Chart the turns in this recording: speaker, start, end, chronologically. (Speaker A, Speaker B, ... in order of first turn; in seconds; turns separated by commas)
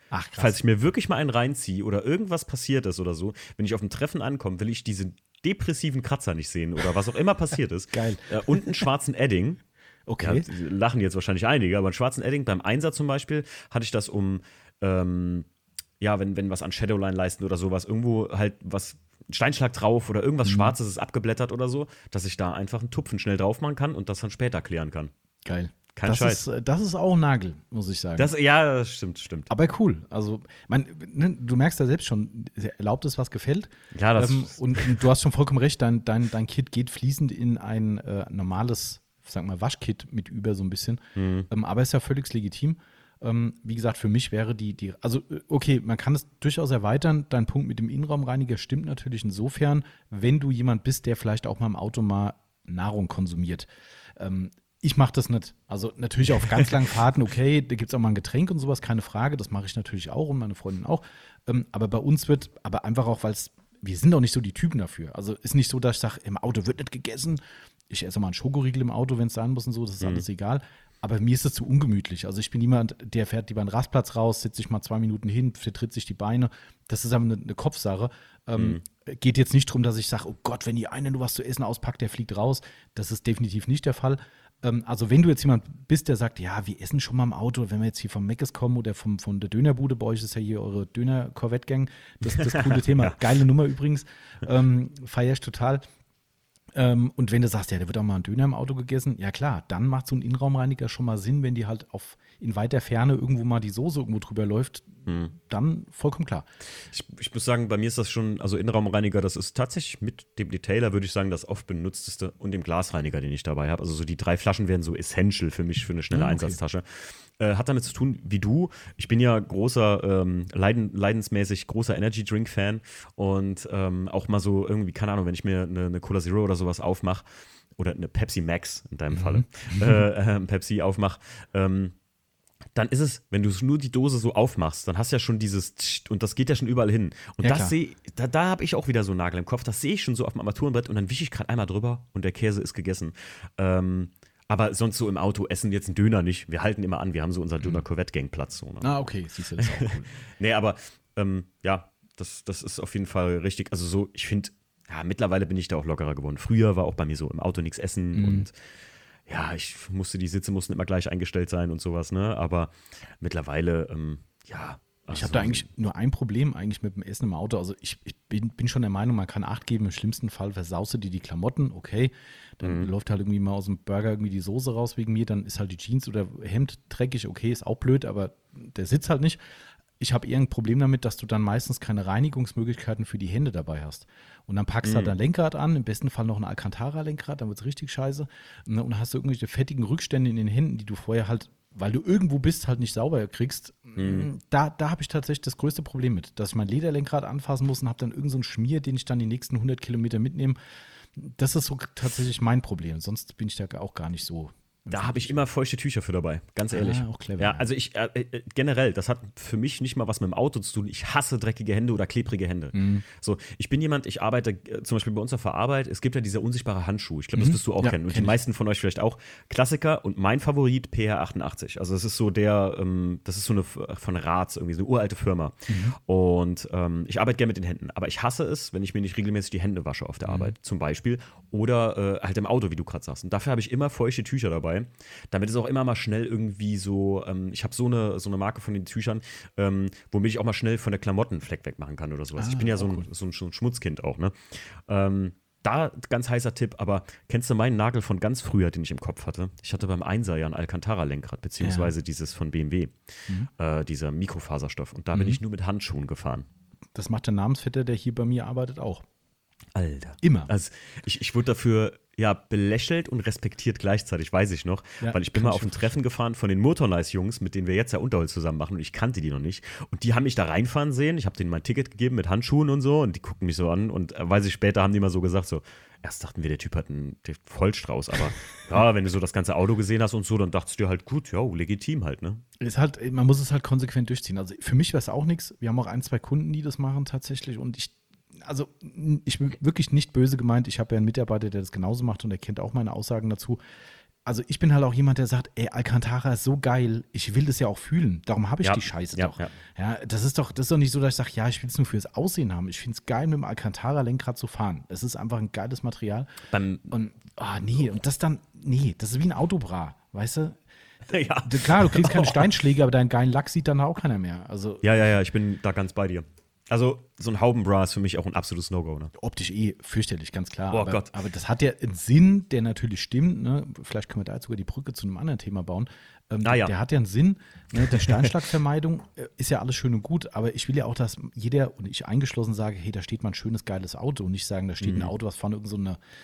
Speaker A: 0.1-0.6, Speaker B: 0.4-9.6, Speaker A: 7.9-8.8, Speaker A: 10.1-10.5, Speaker B: 10.2-15.5, Speaker B: 16.0-25.1, Speaker A: 20.4-20.7, Speaker A: 25.4-28.3, Speaker B: 25.9-26.4, Speaker B: 28.2-29.5, Speaker A: 29.5-95.8, Speaker B: 33.9-35.0, Speaker B: 41.2-41.5, Speaker B: 78.6-78.8, Speaker B: 92.4-93.2, Speaker A: 96.8-106.5, Speaker B: 106.9-131.9, Speaker A: 116.1-116.6, Speaker A: 129.1-130.0, Speaker B: 132.8-148.9, Speaker A: 137.4-137.8, Speaker A: 148.8-150.1, Speaker B: 149.8-158.5, Speaker A: 158.1-158.5, Speaker B: 159.3-165.7, Speaker A: 165.1-179.4, Speaker B: 172.6-172.9, Speaker A: 180.0-200.6, Speaker B: 184.8-185.1, Speaker B: 194.0-194.3, Speaker A: 201.2-205.5, Speaker B: 204.9-252.9, Speaker A: 206.7-207.7, Speaker A: 212.7-213.0, Speaker A: 217.4-218.4, Speaker A: 225.7-226.0, Speaker A: 230.3-230.5, Speaker A: 242.4-243.1, Speaker A: 251.6-251.9, Speaker B: 253.6-256.5, Speaker A: 255.1-255.4, Speaker A: 256.9-259.0, Speaker B: 259.8-282.4, Speaker A: 260.2-260.5, Speaker A: 265.0-265.9, Speaker A: 282.6-293.6, Speaker A: 294.3-306.3, Speaker B: 298.6-299.5, Speaker B: 306.5-306.9, Speaker A: 306.9-310.6, Speaker B: 311.1-312.5, Speaker A: 311.4-315.0, Speaker B: 314.8-319.1, Speaker A: 319.1-336.0, Speaker B: 320.7-321.1, Speaker B: 326.4-326.7, Speaker B: 327.8-328.3, Speaker B: 334.8-335.1